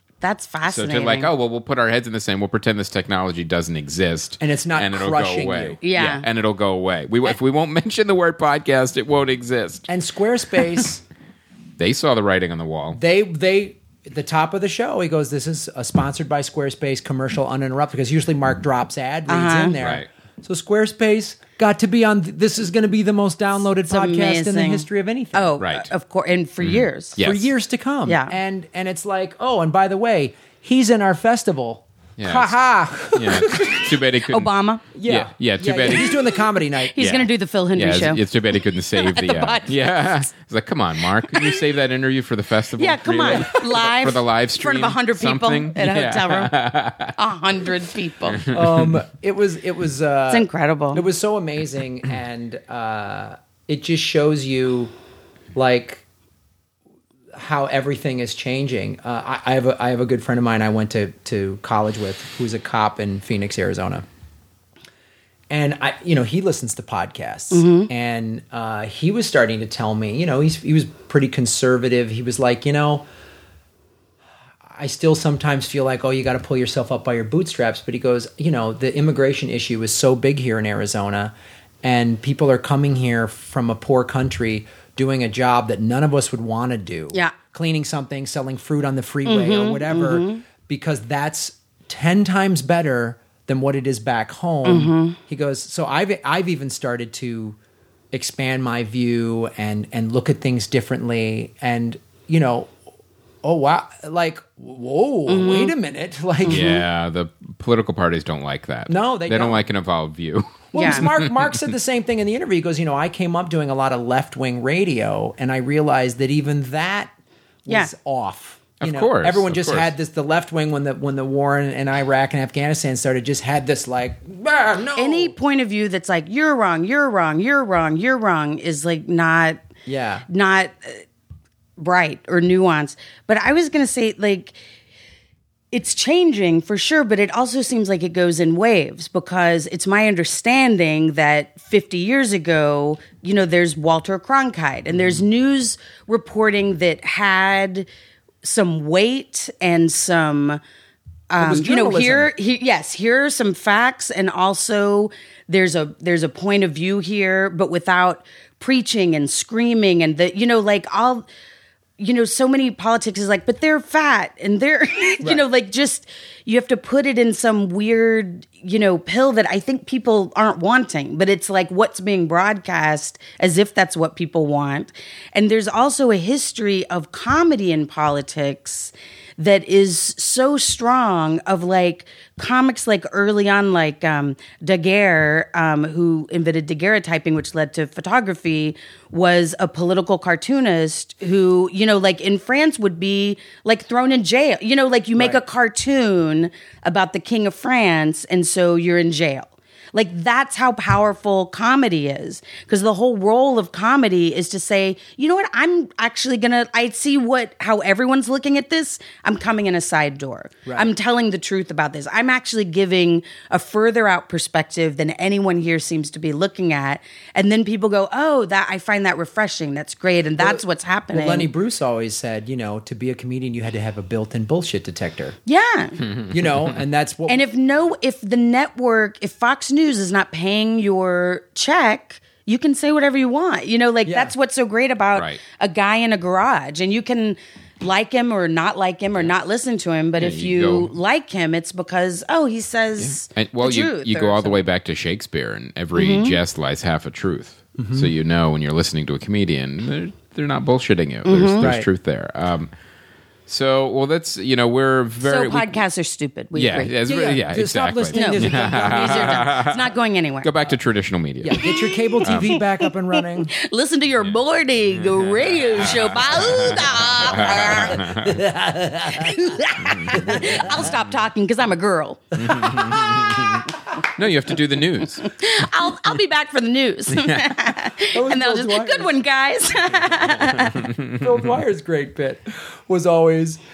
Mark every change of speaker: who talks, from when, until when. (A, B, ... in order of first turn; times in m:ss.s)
0:00.2-0:01.3 A
0:00.7-0:09.9 B
0:04.4-0:05.8 C
0:05.8-0:06.2 A
0:09.9-0:11.0 C
0:11.8-0:13.0 B
0:12.9-0:25.5 C
0:19.3-0:19.8 A
0:19.8-0:20.1 B
0:23.9-0:27.2 A
0:25.6-0:25.9 B
0:26.6-0:27.5 B
0:27.2-0:33.9 C
0:28.0-0:28.3 A
0:32.2-0:36.2 B
0:34.3-0:34.8 A
0:34.9-0:37.0 C
0:36.9-0:38.2 A
0:37.0-0:47.1 B
0:38.9-0:40.2 A
0:41.2-0:41.6 A
0:42.8-0:46.5 A
0:47.2-0:48.4 A
0:48.4-0:49.0 B
0:48.5-0:54.9 C
0:50.3-0:51.0 A
0:55.5-0:56.0 C
0:57.3-1:04.0 C
1:05.5-1:13.0 C
1:07.5-1:07.9 A
1:14.6-1:37.6 C
1:29.2-1:30.4 A
1:34.6-1:35.2 A
1:38.1-1:42.7 C
1:43.4-1:46.7 C
1:45.3-1:45.7 A
1:46.4-1:46.8 A
1:46.5-1:51.6 B
1:48.9-1:49.6 C
1:50.7-1:57.1 C
1:50.7-1:51.0 A
1:57.6-2:05.3 C
1:58.8-1:59.9 B
2:05.0-2:09.6 A
2:09.8-2:10.2 C
2:10.3-2:11.0 A
2:11.8-2:14.6 A
2:15.7-2:27.9 A
2:28.4-2:30.6 A
2:31.3-2:41.2 A
2:31.4-2:32.3 C
2:42.0-3:41.5 A
3:30.6-3:30.9 C
3:40.4-3:45.4 C
3:45.4-3:46.0 A
3:46.3-3:47.4 C
3:47.3-4:04.6 A
3:54.0-3:54.3 C
3:55.1-3:55.4 B
4:00.2-4:00.9 B
4:03.0-4:12.7 B
4:05.9-4:06.4 A
4:07.8-4:08.1 C
4:11.2-4:11.7 A
4:11.6-4:11.9 C
4:13.5-4:15.8 B
4:15.2-4:16.9 A
4:16.5-4:21.6 B
4:17.0-4:19.5 C
4:18.1-4:20.5 A
4:21.4-4:23.5 C
4:21.6-4:28.1 A
4:22.2-4:22.6 B
4:24.9-4:28.4 B
4:27.4-4:29.5 C
4:29.1-4:33.7 A
4:30.1-4:30.8 C
4:32.4-4:35.3 B
4:35.2-4:40.9 A
4:37.1-4:37.5 B
4:38.1-4:39.1 C
4:40.8-4:41.2 B
4:41.1-4:43.6 C